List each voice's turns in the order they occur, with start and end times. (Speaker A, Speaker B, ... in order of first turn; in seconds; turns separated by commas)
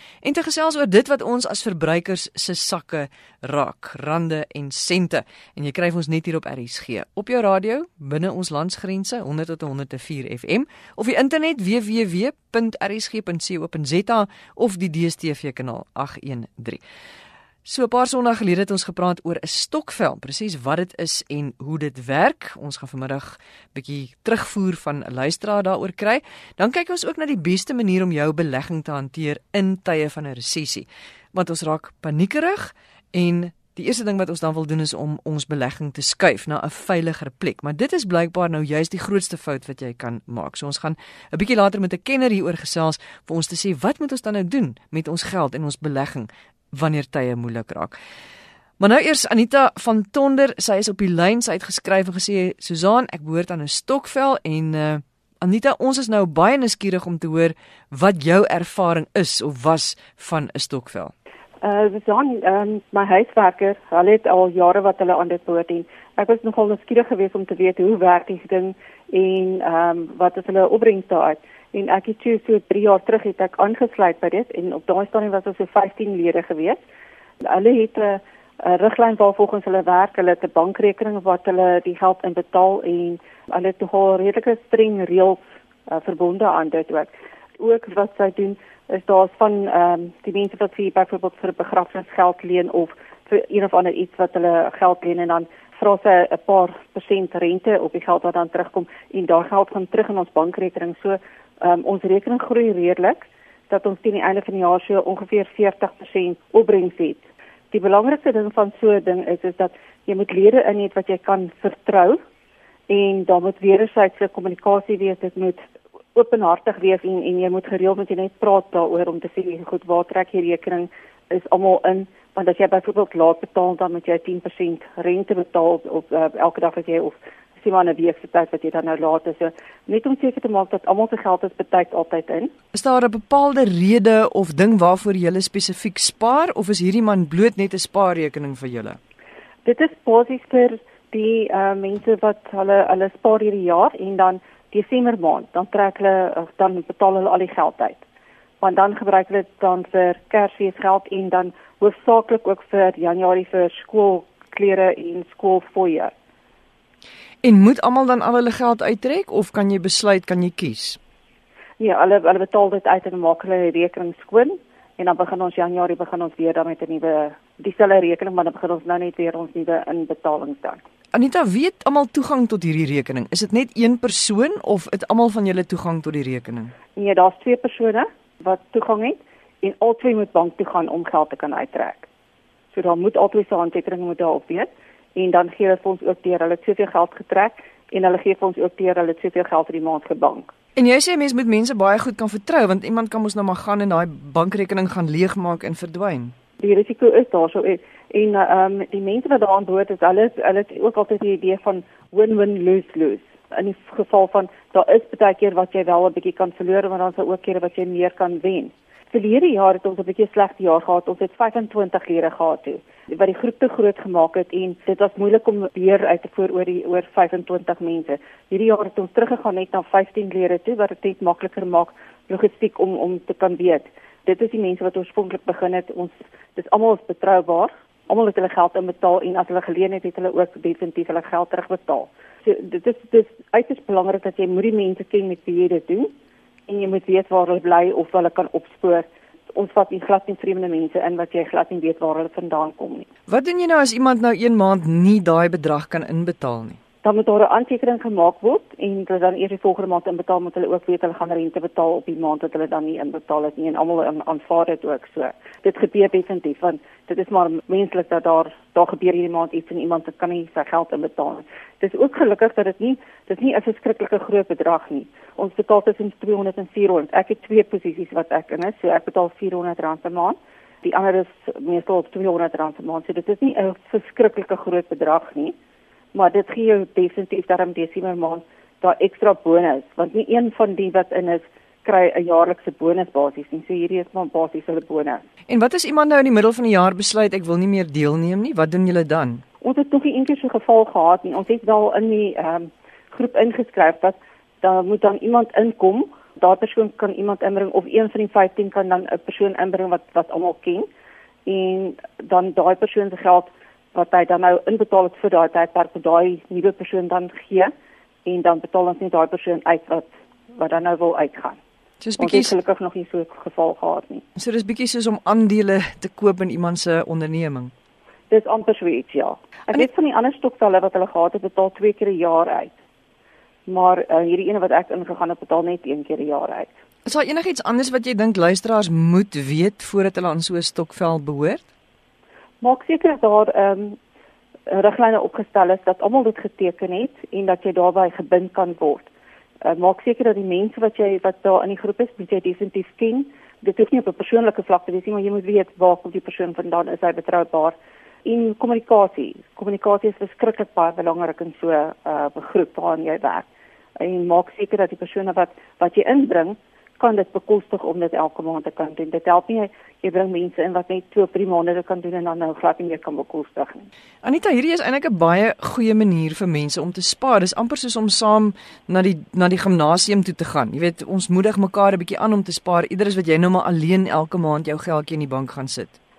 Speaker A: 0.2-16.8, Speaker A: 17.7-48.0, Speaker A: 48.8-61.1, Speaker B: 61.6-76.8, Speaker B: 77.5-112.2, Speaker B: 112.9-115.6, Speaker B: 116.2-132.5, Speaker A: 132.7-139.0, Speaker B: 139.7-148.0, Speaker B: 148.6-156.1, Speaker A: 157.4-161.0, Speaker B: 161.8-170.8, Speaker A: 171.1-176.7, Speaker B: 176.9-182.1, Speaker B: 182.7-190.5, Speaker A: 190.8-196.3, Speaker B: 196.6-236.1, Speaker B: 236.7-243.1, Speaker A: 243.3-246.8, Speaker B: 247.0-275.6, Speaker B: 276.1-285.2, Speaker A: 285.5-289.4, Speaker B: 289.6-300.9, Speaker B: 301.5-307.7, Speaker B: 308.2-311.6, Speaker A: 312.0-312.6, Speaker B: 312.2-314.2, Speaker A: 314.4-317.7, Speaker B: 318.3-322.8, Speaker B: 323.7-326.7, Speaker A: 327.1-331.6, Speaker B: 332.6-334.0, Speaker B: 334.7-339.1, Speaker B: 339.6-353.5, Speaker B: 354.0-363.9, Speaker A: 364.2-376.0